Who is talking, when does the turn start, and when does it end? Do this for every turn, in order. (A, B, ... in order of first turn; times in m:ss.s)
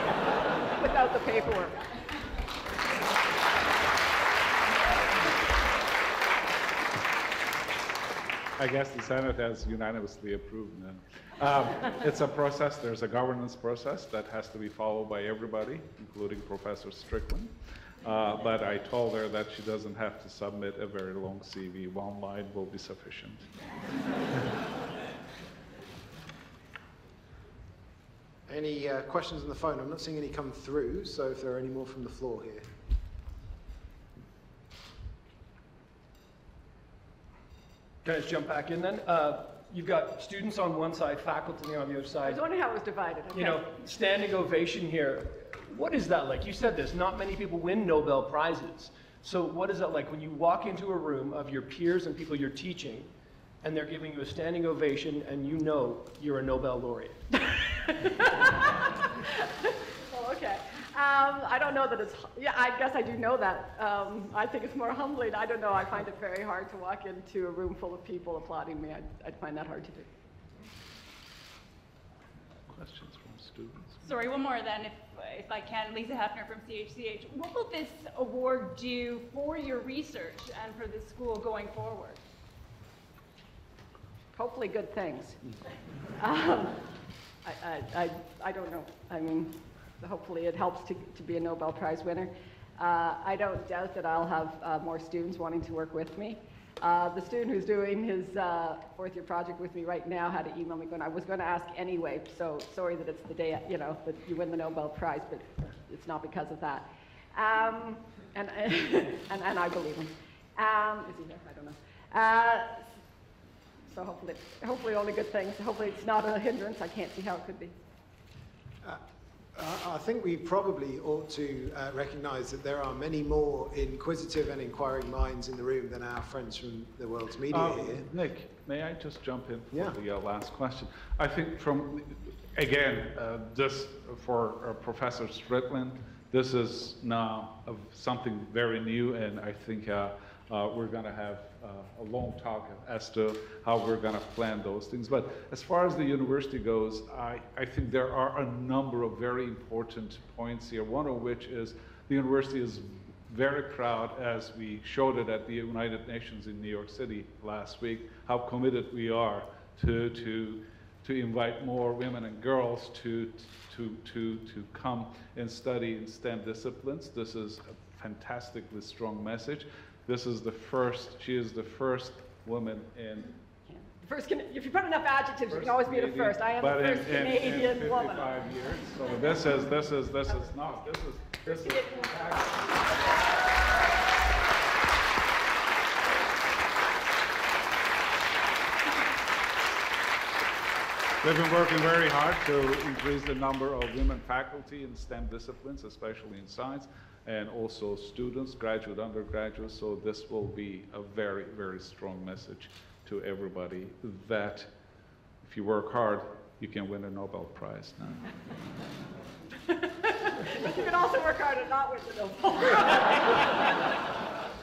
0:00.8-0:01.8 A
0:08.6-0:23.5 B
0:28.5-0:32.7 C
0:38.0-0:42.4 D
0:42.2-0:43.7 A
0:43.3-0:53.1 D
0:53.6-0:57.2 D
0:57.4-1:10.1 A
1:12.7-1:14.0 B
1:14.0-1:22.2 E
1:24.3-1:25.4 A
1:26.2-1:26.8 A
1:27.4-1:52.9 A
1:53.9-1:57.7 A
1:59.6-2:08.0 C
2:07.5-2:53.3 B
2:09.7-2:10.0 C
2:53.7-2:58.3 A
2:55.5-3:03.0 B
3:01.5-3:02.0 A
3:11.2-3:24.7 B
3:25.4-3:28.2 B
3:29.7-3:33.7 A